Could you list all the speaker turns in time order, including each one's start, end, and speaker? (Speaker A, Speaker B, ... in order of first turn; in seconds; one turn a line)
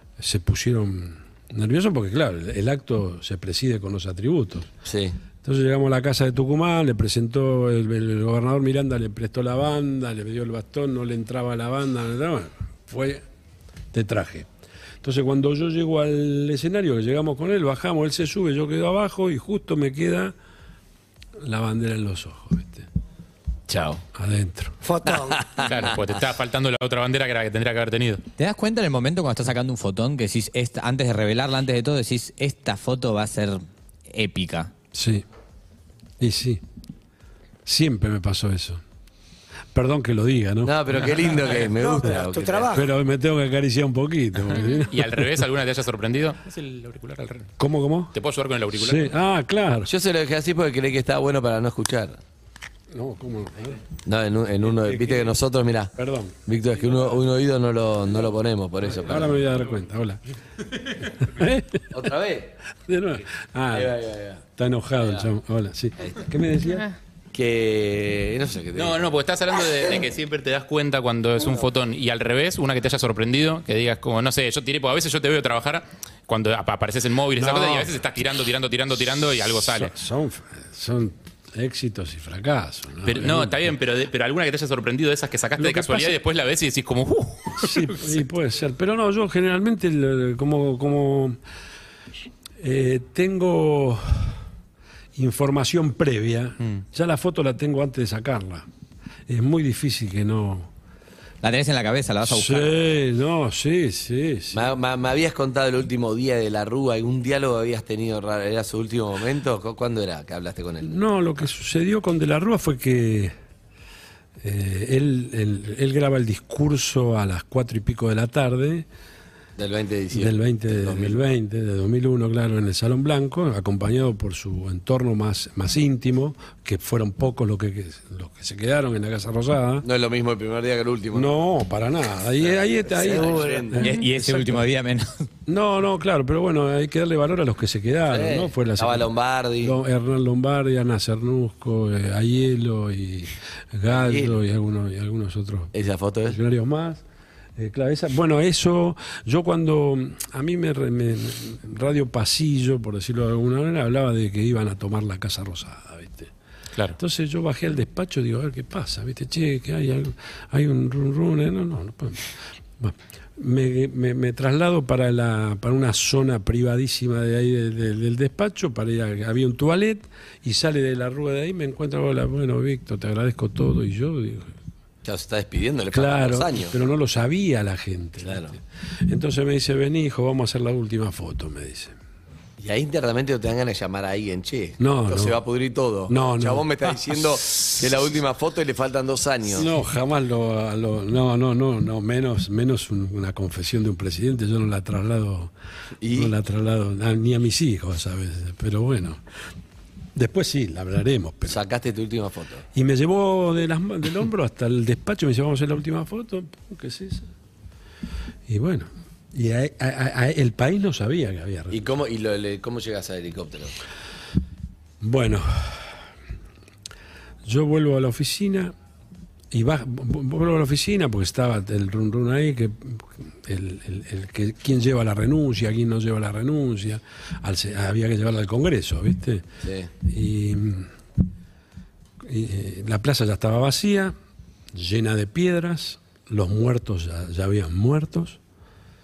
Speaker A: 0.2-4.7
Speaker B: 4.8-5.2
Speaker A: 5.4-13.2
Speaker A: 13.9-14.5
Speaker A: 15.0-20.3
Speaker A: 21.4-22.9
Speaker B: 23.7-24.0
Speaker A: 24.1-24.8
Speaker C: 24.8-25.9
Speaker B: 25.3-25.8
Speaker D: 25.6-28.2
Speaker E: 28.4-34.7
Speaker A: 34.9-35.2
Speaker A: 36.2-36.6
Speaker A: 37.6-38.8
Speaker A: 39.7-41.1
Speaker B: 40.6-42.7
Speaker C: 41.8-42.9
Speaker A: 42.7-45.3
Speaker D: 44.9-47.5
Speaker A: 47.6-48.1
Speaker D: 48.1-49.1
Speaker A: 48.7-49.9
Speaker B: 49.9-52.2
Speaker A: 52.9-53.8
Speaker B: 54.0-55.9
Speaker A: 54.6-55.4
Speaker A: 55.9-56.3
Speaker B: 56.5-59.4
Speaker A: 58.9-60.2
Speaker A: 61.2-61.9
Speaker B: 61.9-62.5
Speaker A: 62.9-64.0
Speaker B: 63.7-64.4
Speaker A: 64.5-66.8
Speaker B: 65.0-65.3
Speaker B: 67.3-69.0
Speaker D: 68.7-79.9
Speaker A: 77.3-78.0
Speaker A: 79.4-83.7
Speaker D: 83.0-88.1
Speaker A: 85.6-86.2
Speaker A: 87.5-91.4
Speaker A: 92.6-94.4
Speaker A: 95.1-98.7
Speaker A: 99.3-100.7
Speaker E: 101.4-102.8
Speaker A: 102.2-104.7
Speaker B: 104.5-111.0
Speaker A: 110.8-113.3
Speaker A: 114.4-118.9
Speaker B: 119.6-121.2
Speaker A: 120.1-129.8
Speaker B: 129.8-131.4
Speaker A: 131.1-134.6
Speaker B: 132.4-134.0
Speaker E: 133.8-135.2
Speaker A: 135.4-139.1
Speaker B: 138.1-139.8
Speaker A: 139.6-145.7
Speaker B: 143.9-144.4
Speaker B: 145.7-146.4
Speaker A: 146.2-147.0
Speaker A: 147.6-156.3
Speaker A: 156.9-174.5
Speaker B: 175.0-176.8
Speaker A: 175.9-181.9
Speaker B: 178.2-178.6
Speaker B: 182.6-189.7
Speaker A: 184.8-185.4
Speaker A: 186.1-187.2
Speaker A: 189.5-195.5
Speaker B: 196.0-196.3
Speaker A: 196.1-199.2
Speaker A: 200.1-201.6
Speaker B: 201.4-202.6
Speaker A: 202.7-207.3
Speaker A: 208.5-211.9
Speaker B: 211.7-213.7
Speaker A: 215.0-216.0
Speaker A: 217.4-218.7
Speaker A: 219.5-229.5
Speaker B: 229.6-229.9
Speaker A: 230.0-230.9
Speaker A: 232.2-234.2
Speaker A: 234.7-238.4